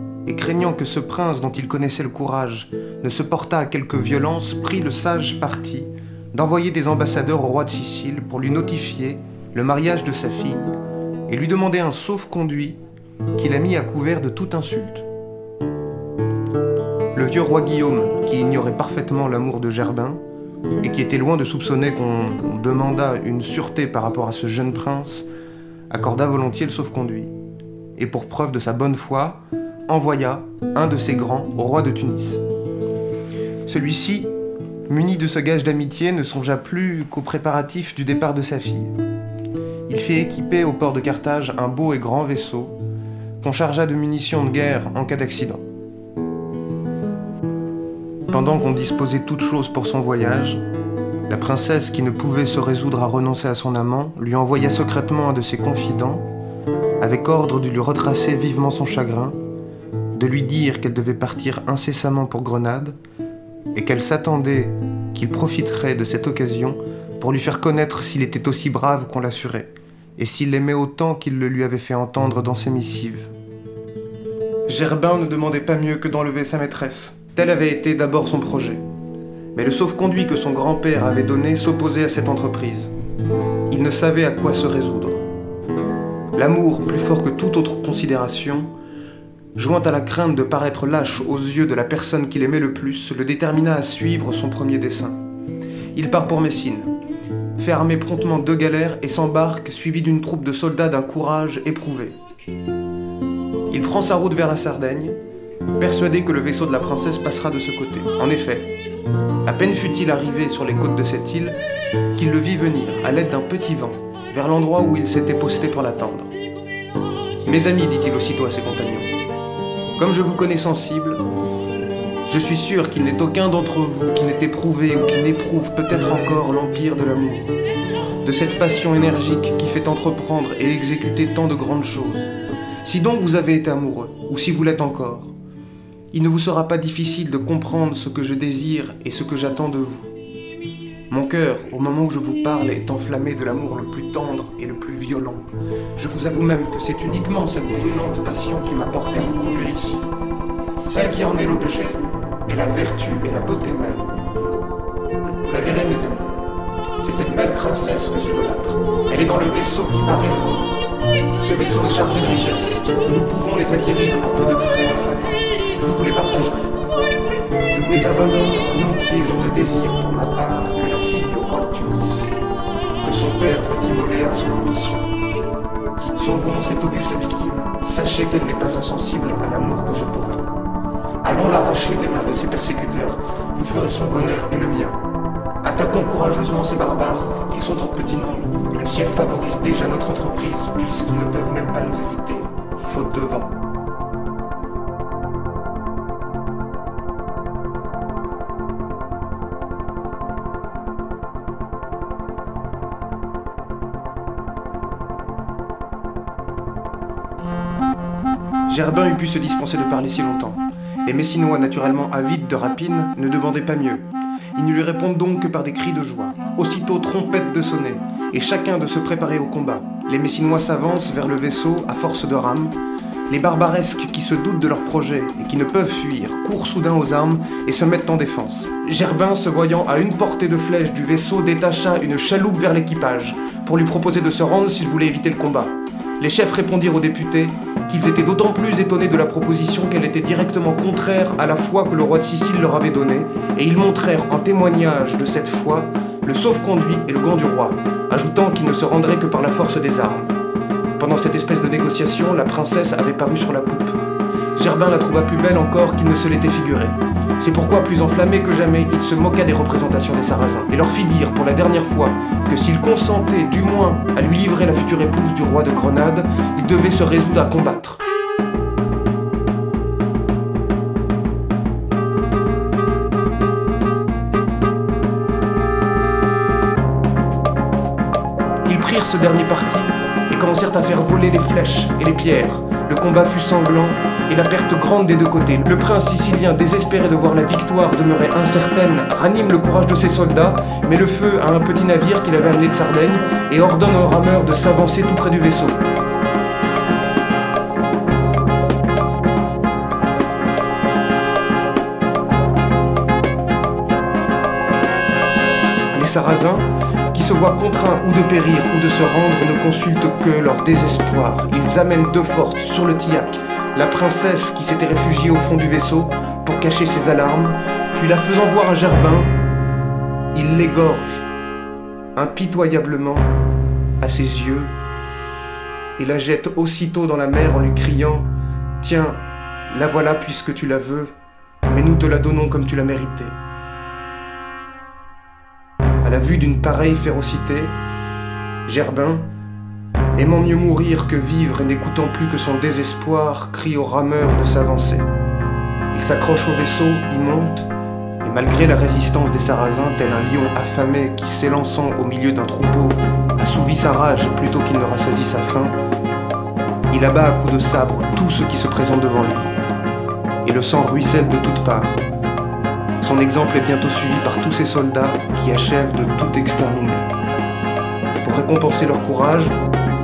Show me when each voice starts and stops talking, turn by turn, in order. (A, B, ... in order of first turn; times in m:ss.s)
0:00.2-0:10.8 A
0:11.3-0:12.8 A
0:13.4-0:15.0 A
0:17.1-0:20.2 A
0:20.8-0:25.3 A
0:25.9-0:27.3 A
0:28.0-0:32.4 A
0:33.7-0:34.3 A
0:34.9-0:39.0 A
0:39.9-0:42.8 A
0:43.4-0:45.6 A
0:48.3-0:50.6 A
0:51.3-0:56.2 A
0:57.0-0:59.4 A
1:00.1-1:03.0 A
1:03.7-1:13.3 A
1:14.7-1:18.8 A
1:19.6-1:22.9 A
1:23.7-1:25.2 A
1:26.4-1:28.7 A
1:29.6-1:35.2 A
1:35.9-1:36.9 A
1:37.6-1:42.2 A
1:43.7-1:45.2 A
1:45.8-1:48.7 A
1:49.4-1:51.6 A
1:52.2-1:56.3 A
1:57.4-1:59.1 A
2:00.0-2:01.2 A
2:02.3-2:07.5 A
2:08.2-2:12.3 A
2:12.8-2:15.3 A
2:16.1-2:20.1 A
2:21.1-2:25.4 A
2:26.0-2:30.1 A
2:30.8-2:34.2 A
2:35.3-2:36.3 A
2:37.0-2:40.8 A
2:41.3-2:46.7 A
2:47.6-2:52.4 A
2:53.0-2:55.1 A
2:56.2-3:00.5 A
3:01.2-3:05.0 A
3:05.6-3:13.6 A
3:28.7-3:42.7 A
3:43.3-4:10.3 A
4:11.0-4:14.0 A
4:14.6-4:28.0 A
4:38.6-4:55.8 A
5:05.9-5:19.3 A
5:20.3-5:21.3 A
5:22.2-5:23.3 A
5:24.0-5:24.7 A
5:26.0-5:28.3 A
5:28.8-5:31.1 A
5:31.7-5:33.4 A
5:36.0-5:37.8 A
5:38.7-5:39.3 A
5:40.2-5:45.1 A
5:45.9-5:47.7 A
5:48.2-5:55.8 A
5:56.9-5:59.5 A
6:00.4-6:02.0 A
6:03.0-6:07.1 A
6:08.2-6:09.6 A